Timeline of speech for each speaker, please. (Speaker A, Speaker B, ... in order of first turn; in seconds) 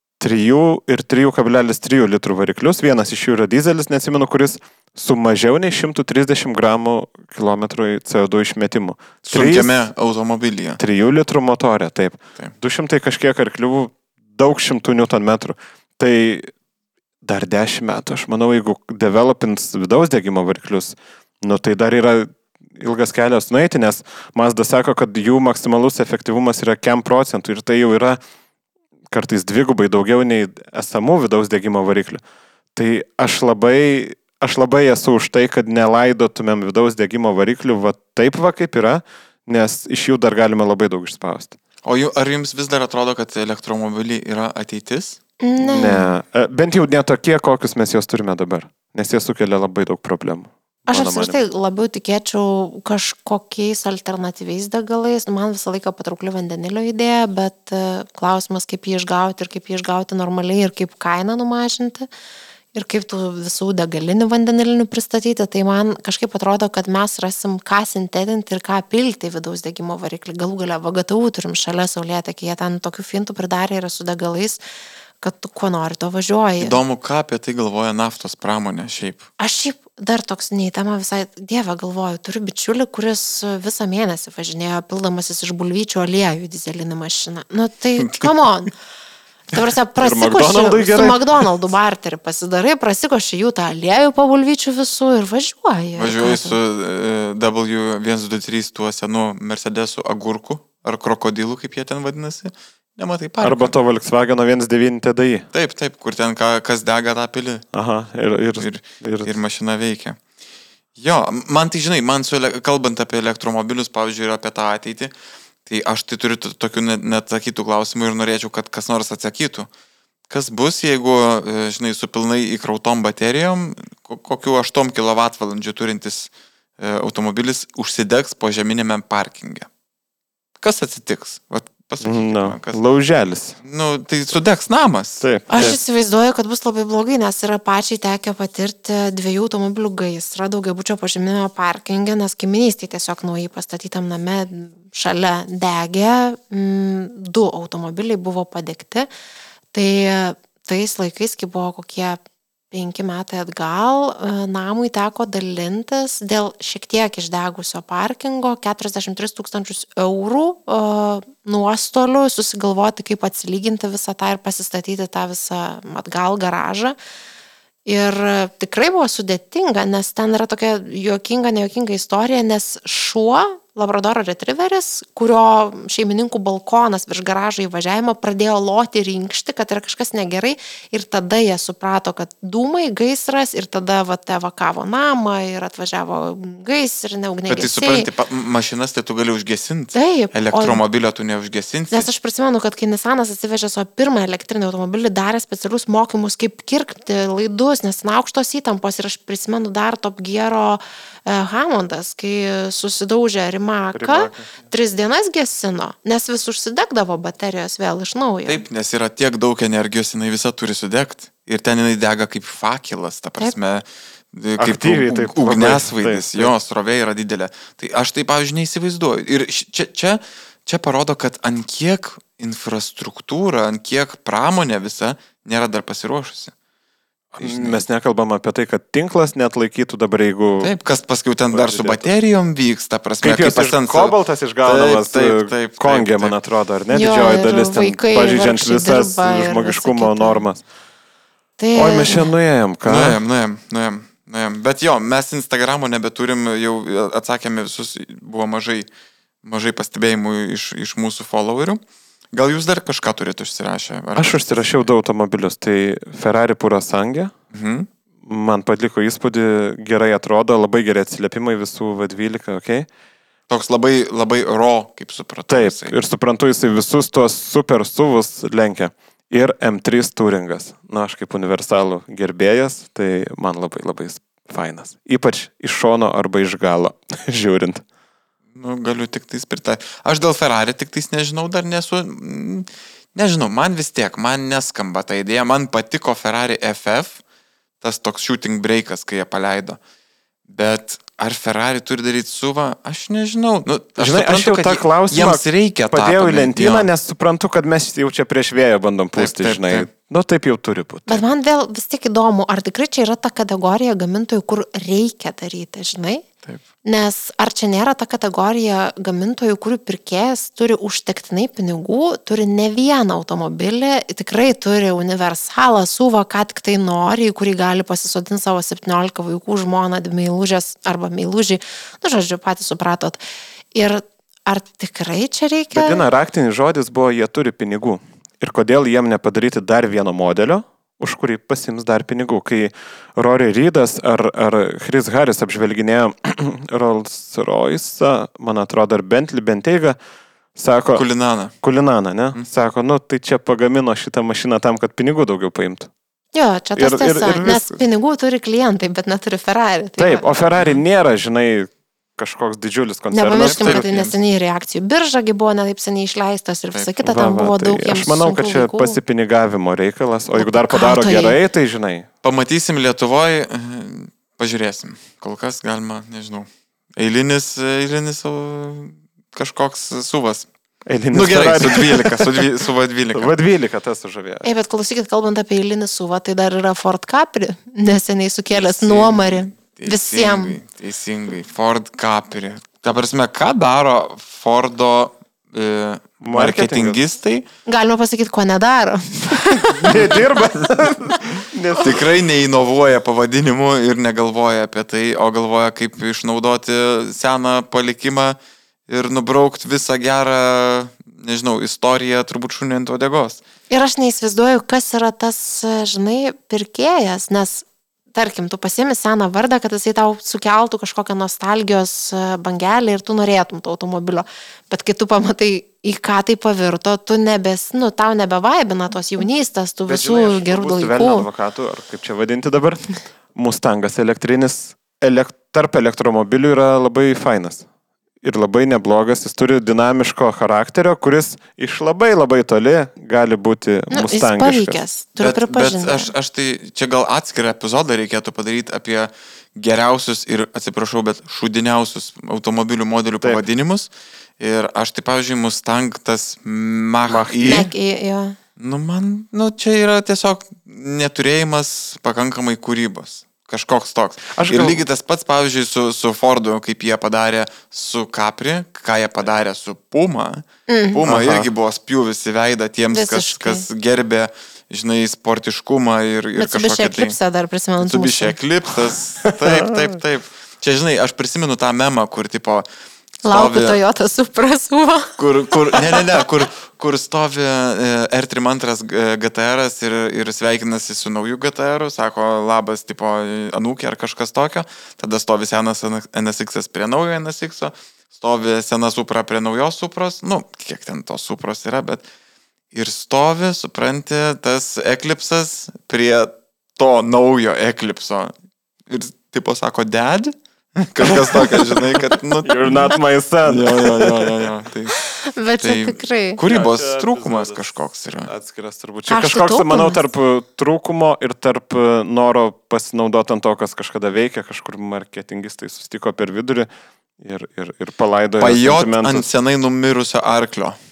Speaker A: 0.2-9.7, 10.8-16.5, 17.2-28.2, 29.1-32.2, 32.7-41.5, 45.6-51.4, 90.0-91.5, 103.4-105.5, 107.7-109.3, 132.0-133.6, 135.2-135.8, 203.9-204.5, 214.6-216.5, 227.3-230.7, 231.5-232.0, 233.2-240.6, 241.7-243.2, 254.2-257.3, 258.2-262.9, 265.5-277.8, 294.0-301.2, 325.7-340.0, 340.5-341.0, 341.6-345.9, 346.8-347.8, 350.0-353.9, 357.0-362.1, 370.9-372.4, 373.1-374.5, 386.2-387.0, 389.8-392.0, 419.9-427.6, 428.2-434.8, 447.1-447.7, 454.3-454.8, 461.1-461.5, 469.2-470.0, 501.0-504.4, 506.4-507.6, 508.2-519.3
Speaker B: 9.3-10.8, 41.8-45.2, 76.6-79.3, 96.0-103.7, 105.5-107.7, 108.6-110.2, 111.0-115.1, 115.7-119.7, 120.3-129.7, 130.6-132.8, 133.6-135.7, 187.5-192.1, 208.4-226.5, 227.4-227.8, 230.6-236.3, 242.8-248.9, 249.4-251.8, 252.3-254.7, 257.5-257.9, 263.5-265.9, 278.5-287.2, 287.8-289.8, 290.5-296.9, 299.1-299.9, 340.9-341.5, 353.3-354.1, 362.2-370.5, 371.1-373.3, 378.5-387.4, 389.9-390.9, 391.8-398.4, 398.9-403.4, 435.2-447.7, 448.6-467.1, 467.8-472.6, 473.2-473.8, 475.2-492.0, 492.7-498.3, 498.9-505.0, 505.6-508.3, 518.4-520.8
Speaker C: 45.4-46.1, 50.9-62.1, 62.7-74.6, 75.2-76.8, 79.4-88.7, 89.5-96.6, 135.5-149.1, 149.7-152.2, 152.7-166.9, 167.8-188.1, 189.9-190.8, 191.9-208.6, 236.9-240.4, 241.6-242.3, 301.1-306.2, 306.8-323.2, 323.7-326.1, 346.3-350.2, 353.1-359.0, 360.4-361.4, 374.4-380.6, 387.6-390.1, 403.7-421.3, 433.9-436.1, 447.4-448.4, 460.7-461.0, 462.9-463.6, 466.4-468.4, 473.2-475.1, 475.7-476.1, 504.9-506.4, 509.1-510.0